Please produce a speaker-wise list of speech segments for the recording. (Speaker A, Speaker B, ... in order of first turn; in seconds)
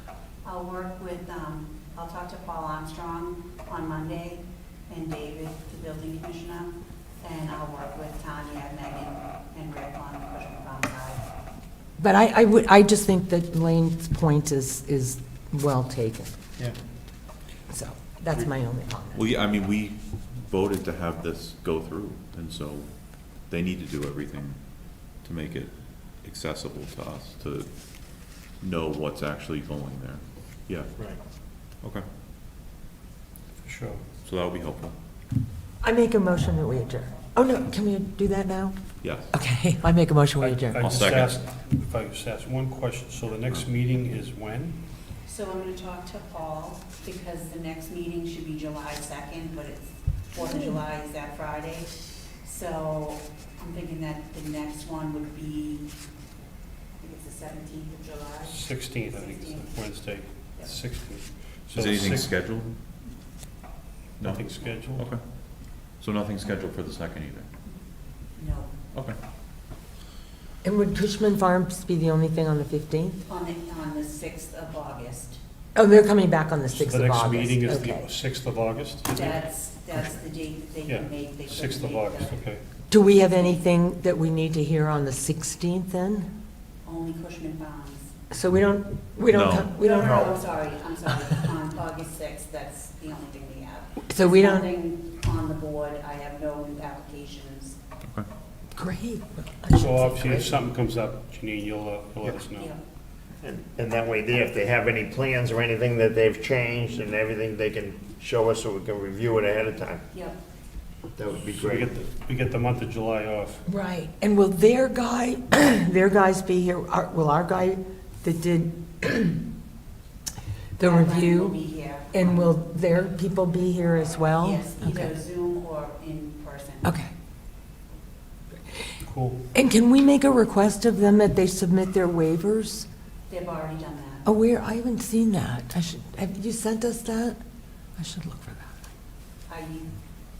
Speaker A: 0.4-11.2, 45.2-55.9, 57.0-59.8, 68.3-68.7, 73.2-75.4, 79.1-82.4, 82.9-83.6, 86.8-88.2, 89.8-97.8, 102.5-102.8, 110.1-110.4, 120.8-122.5, 124.4-126.9, 133.3-134.3, 139.5-139.9
Speaker B: 12.0-16.3, 17.7-19.2, 35.8-38.7, 39.3-40.8, 50.4-50.8, 70.6-73.2, 75.7-78.1, 82.9-86.3, 88.3-90.4, 94.1-94.7, 98.8-100.6, 113.7-119.4, 120.8-121.6, 122.1-125.1, 126.8-127.1, 129.5-132.9, 134.2-137.4, 138.0-138.8
Speaker C: 19.1-30.9, 31.8-32.0, 34.2-34.9, 39.0-39.3, 40.8-41.4, 61.7-62.7, 64.2-65.2, 66.0-67.5, 89.3-90.3
Speaker D: 33.6-34.0, 40.4-44.8, 58.4-62.3, 64.2-65.0, 76.7-79.4, 80.9-82.6, 99.7-102.7, 111.5-113.6, 129.0-129.4
Speaker E: 103.4-110.0, 111.2-112.0